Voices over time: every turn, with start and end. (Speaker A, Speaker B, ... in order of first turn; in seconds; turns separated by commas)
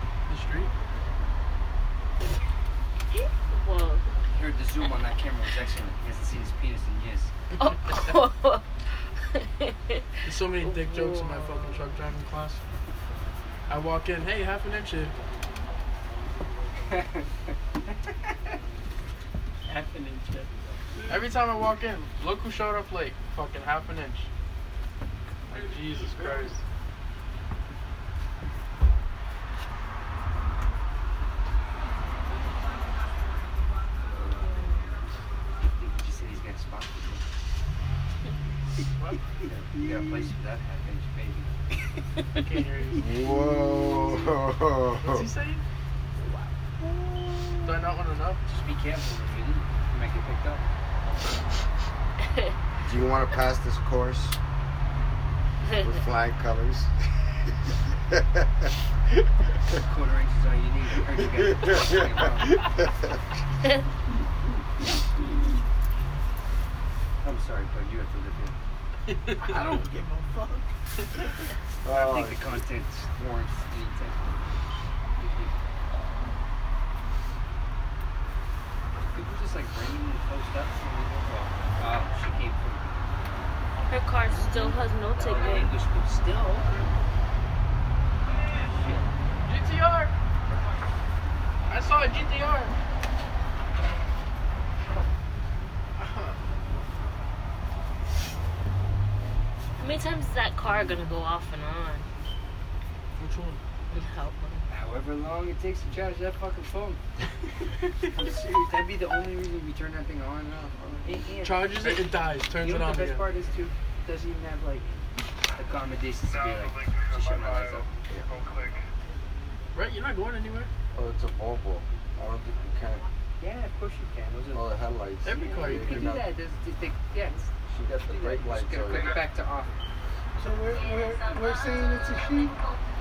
Speaker A: 0.3-0.7, Speaker B: 3.1-4.0, Speaker C: 4.3-7.3, Speaker B: 7.6-11.8, Speaker A: 10.2-12.6, Speaker A: 13.7-15.2, Speaker C: 16.9-18.6, Speaker C: 19.7-20.5, Speaker A: 21.1-24.3, Speaker A: 25.5-26.6, Speaker C: 34.1-34.8, Speaker C: 35.8-37.2, Speaker C: 39.5-41.5, Speaker D: 39.8-40.3, Speaker A: 42.4-43.3, Speaker D: 43.0-44.0, Speaker E: 43.0-45.3, Speaker A: 45.0-45.6, Speaker D: 46.8-47.9, Speaker A: 47.6-48.4, Speaker C: 48.5-50.6, Speaker E: 52.8-54.4, Speaker E: 55.8-56.9, Speaker E: 57.5-59.2, Speaker C: 59.7-62.6, Speaker E: 61.1-63.2, Speaker C: 67.2-68.5, Speaker A: 69.1-69.8, Speaker D: 69.4-70.7, Speaker E: 71.8-72.6, Speaker C: 71.9-74.4, Speaker C: 75.2-75.6, Speaker C: 79.1-82.8, Speaker B: 83.9-85.7, Speaker C: 84.4-86.8, Speaker C: 88.7-89.1, Speaker A: 89.4-90.1, Speaker A: 91.7-92.7, Speaker A: 96.0-96.4, Speaker B: 99.8-102.1, Speaker A: 103.2-103.6, Speaker B: 103.9-104.7, Speaker C: 104.7-107.0, Speaker C: 108.1-114.9, Speaker A: 111.4-113.2, Speaker C: 115.5-117.9, Speaker E: 118.0-118.8, Speaker A: 119.7-120.7, Speaker E: 120.9-123.0, Speaker C: 123.4-124.8, Speaker E: 124.5-126.2, Speaker A: 125.2-126.2, Speaker C: 125.4-129.7, Speaker E: 127.7-129.2, Speaker D: 130.4-132.6